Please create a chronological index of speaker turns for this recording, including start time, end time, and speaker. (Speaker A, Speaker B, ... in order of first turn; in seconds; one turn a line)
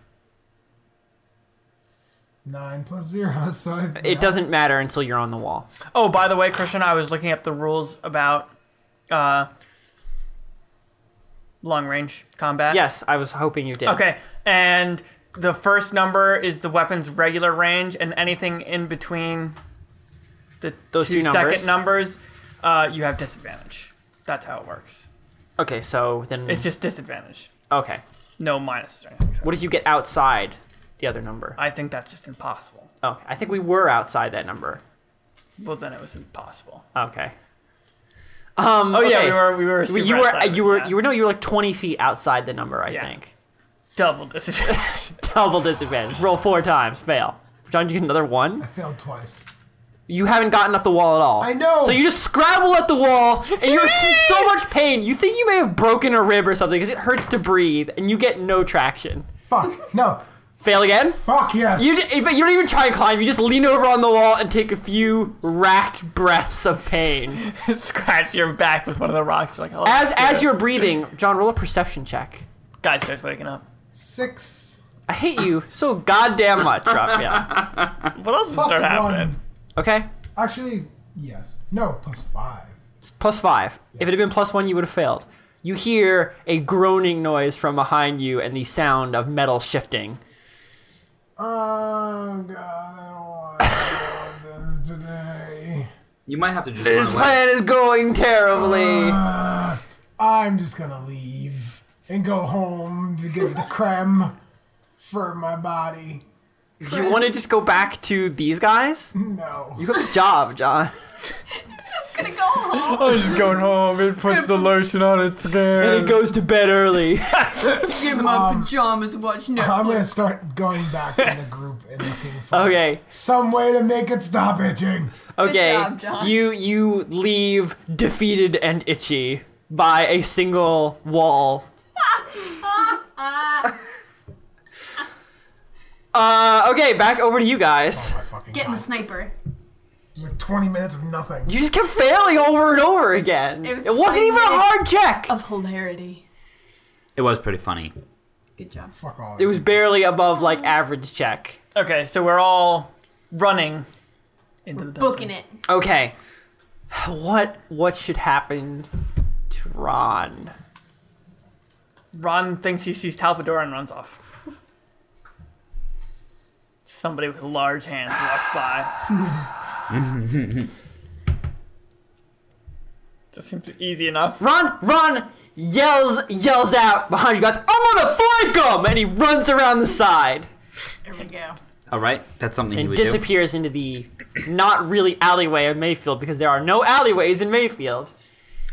Speaker A: 2.4-4.4
Speaker B: 4.0-5.7
Speaker C: 5.9-8.5
Speaker C: 9.1-9.5
Speaker C: 11.6-12.8
Speaker B: 12.7-14.1
Speaker C: 13.8-19.6
Speaker C: 20.6-25.0
Speaker B: 20.9-21.7
Speaker B: 25.6-26.7
Speaker C: 26.5-27.5
Speaker B: 27.7-28.0
Speaker C: 28.4-29.6
Speaker B: 29.4-31.6
Speaker C: 31.6-32.9
Speaker B: 33.0-34.8
Speaker C: 35.6-36.9
Speaker B: 36.9-37.3
Speaker B: 38.6-43.3
Speaker C: 38.9-40.9
Speaker C: 43.9-45.1
Speaker B: 44.7-48.7
Speaker A: 48.6-49.5
Speaker B: 50.1-59.3
Speaker A: 51.4-52.1
Speaker A: 59.5-60.2
Speaker B: 60.6-61.2
Speaker A: 61.2-62.0
Speaker B: 61.7-67.4
Speaker C: 67.4-70.8
Speaker B: 69.8-72.4
Speaker C: 72.8-73.6
Speaker A: 73.9-74.8
Speaker B: 75.1-77.6
Speaker D: 77.5-77.9
Speaker C: 78.1-79.3
Speaker A: 78.5-79.4
Speaker B: 79.8-80.1
Speaker A: 80.3-82.8
Speaker B: 83.0-90.2
Speaker A: 91.4-95.9
Speaker D: 96.2-97.4
Speaker B: 96.8-99.2
Speaker A: 98.5-104.3
Speaker A: 105.0-106.2
Speaker B: 106.8-109.1
Speaker E: 106.9-107.2
Speaker A: 109.1-109.9
Speaker B: 109.8-110.9
Speaker E: 111.6-113.5
Speaker C: 112.7-116.2
Speaker E: 114.2-114.7
Speaker B: 115.8-117.5
Speaker C: 117.4-117.7
Speaker E: 117.7-120.1
Speaker A: 118.1-118.8
Speaker A: 119.5-125.1
Speaker B: 122.5-123.0
Speaker B: 125.3-131.7
Speaker E: 125.4-126.5
Speaker E: 132.2-133.8
Speaker B: 136.1-138.1
Speaker A: 137.9-138.9
Speaker E: 138.5-139.3
Speaker A: 140.1-141.5
Speaker B: 141.5-145.3
Speaker E: 143.6-146.2
Speaker D: 147.1-147.9
Speaker E: 148.6-148.9
Speaker A: 148.9-149.9
Speaker B: 149.4-151.6
Speaker C: 151.7-153.9
Speaker C: 154.7-155.3
Speaker E: 154.9-155.5
Speaker B: 155.7-156.1
Speaker B: 156.9-158.9
Speaker B: 159.5-160.5
Speaker C: 162.1-164.2
Speaker C: 166.9-169.0
Speaker D: 169.9-170.7
Speaker C: 173.3-174.4
Speaker B: 174.4-180.5
Speaker E: 181.0-181.6
Speaker D: 181.9-183.2
Speaker B: 182.7-188.1